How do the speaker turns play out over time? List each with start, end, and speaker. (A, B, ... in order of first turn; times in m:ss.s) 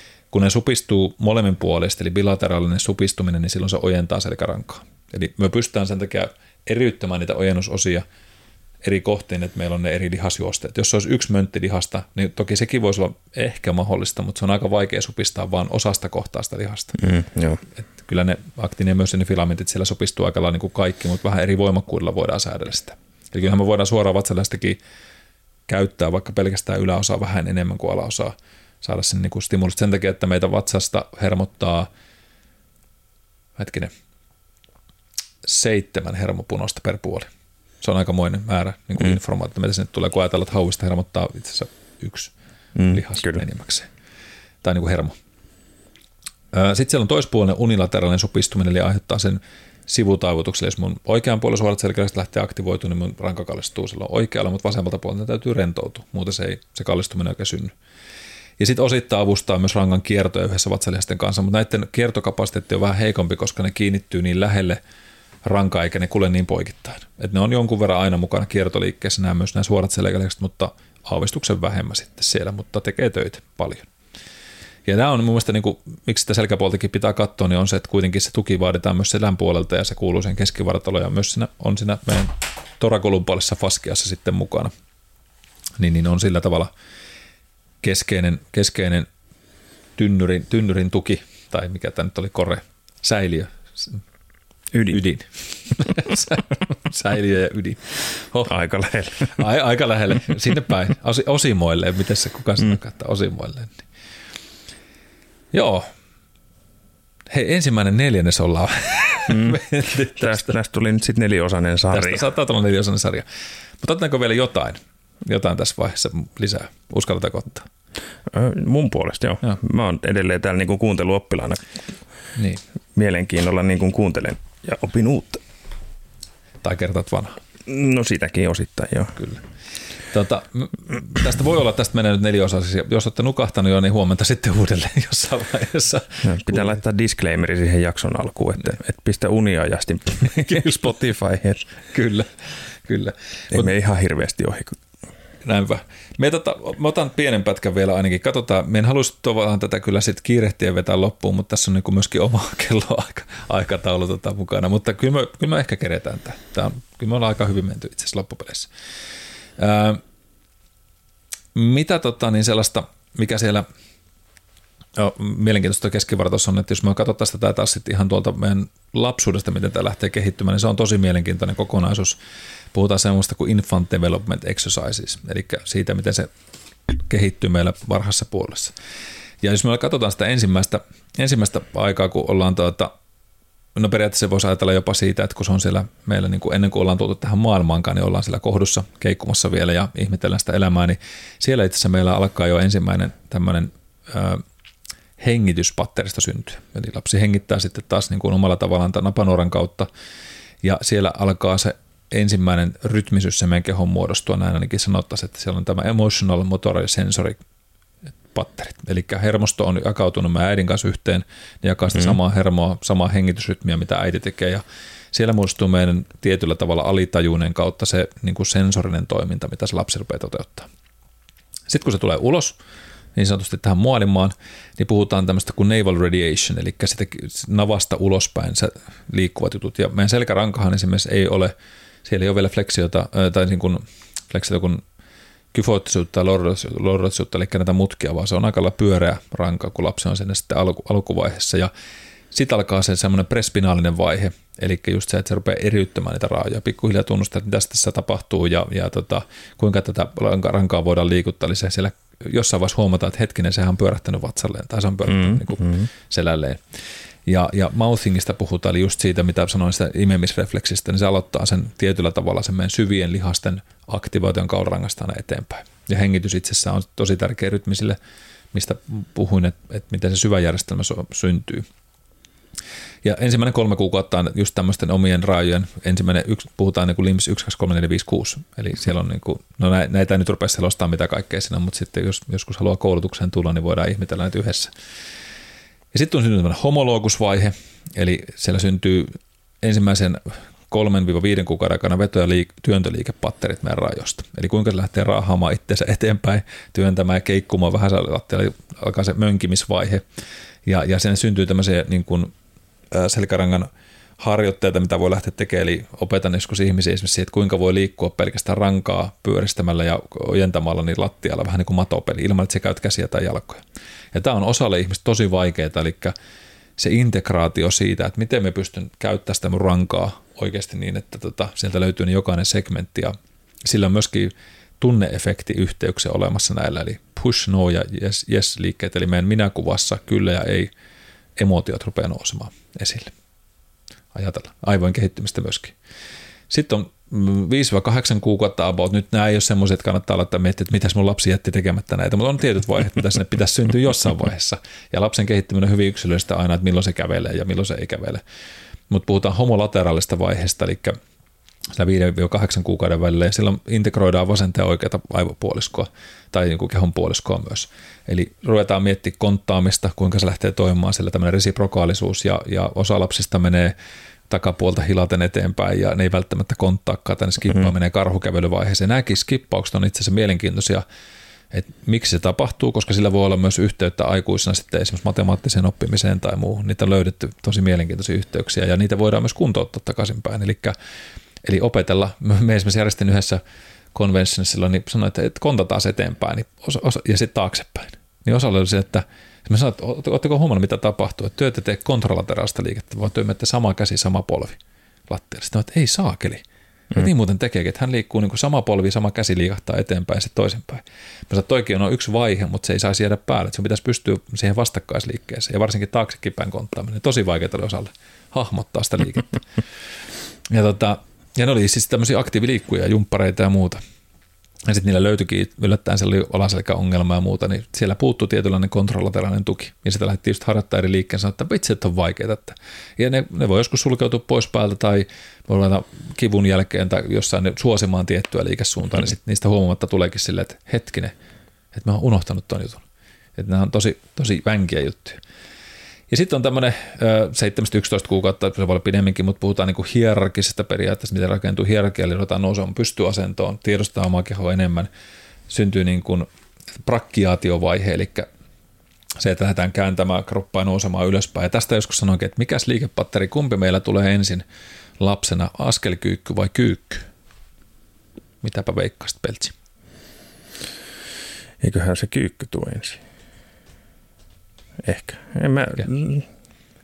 0:00.3-0:08.0 A
0:08.8-0:17.0 A
0:17.0-0:17.6 B
0:17.8-0:24.8 A
0:25.7-0:31.9 A
0:33.6-0:33.9 A
0:35.4-0:37.3 A
0:37.8-0:43.9 A
0:42.8-0:43.4 B
0:44.6-0:45.1 A
0:46.5-0:57.7 A
0:58.6-1:04.8 A
1:05.4-1:13.9 A
1:14.8-1:24.7 A
1:25.8-1:26.7 A
1:27.8-1:29.1 A
1:30.0-1:34.0 A
1:34.7-1:35.0 B
1:34.9-1:38.6 A
1:38.5-1:39.4 B
1:39.2-1:43.8 A
1:45.5-1:45.9 A
1:47.3-1:50.6 A
1:49.3-1:49.6 B
1:50.1-1:52.2 B
1:51.9-1:53.2 A
1:53.8-1:57.7 A
1:58.3-2:01.6 B
2:02.4-2:02.6 A
2:02.9-2:05.4 B
2:06.6-2:07.4 A
2:07.6-2:09.2 B
2:10.1-2:16.7 A
2:16.2-2:21.7 B
2:21.9-2:23.7 A
2:23.5-2:24.8 B
2:25.4-2:38.7 A
2:39.6-2:40.0 A
2:41.5-2:43.7 A
2:45.0-2:52.2 A
2:52.7-2:56.3 A
2:57.1-2:58.7 A
2:59.4-3:02.9 A
3:03.7-3:14.4 A
3:15.2-3:19.9 A
3:20.6-3:27.4 A
3:28.3-3:40.7 A
3:41.7-3:42.6 A
3:43.2-3:51.5 A
3:52.0-3:54.8 A
3:55.5-4:01.7 A
4:02.3-4:16.6 A
4:15.1-4:15.9 B
4:17.2-4:28.0 A
4:28.5-4:31.7 A
4:33.0-4:44.7 A
4:45.9-5:00.0 A
5:00.6-5:02.3 A
5:02.9-5:03.7 A
5:04.2-5:13.6 A
5:14.1-5:16.1 A
5:16.8-5:30.7 A
5:31.4-5:33.1 A
5:34.1-5:35.7 A
5:36.5-5:48.2 A
5:48.9-5:51.0 A
5:51.7-6:03.7 A
6:04.3-6:10.8 A
6:11.5-6:20.7 A
6:21.4-6:23.4 A
6:23.9-6:36.4 A
6:36.9-6:49.3 A
6:50.5-6:53.8 A
6:54.7-7:11.1 A
7:11.7-7:12.8 A
7:13.4-7:15.2 A
7:16.1-7:24.9 A
7:25.5-7:26.3 A
7:26.8-7:28.3 A
7:29.2-7:34.4 A
7:35.0-7:37.1 A
7:38.4-7:39.5 A
7:41.6-7:43.0 B
7:44.8-7:46.3 B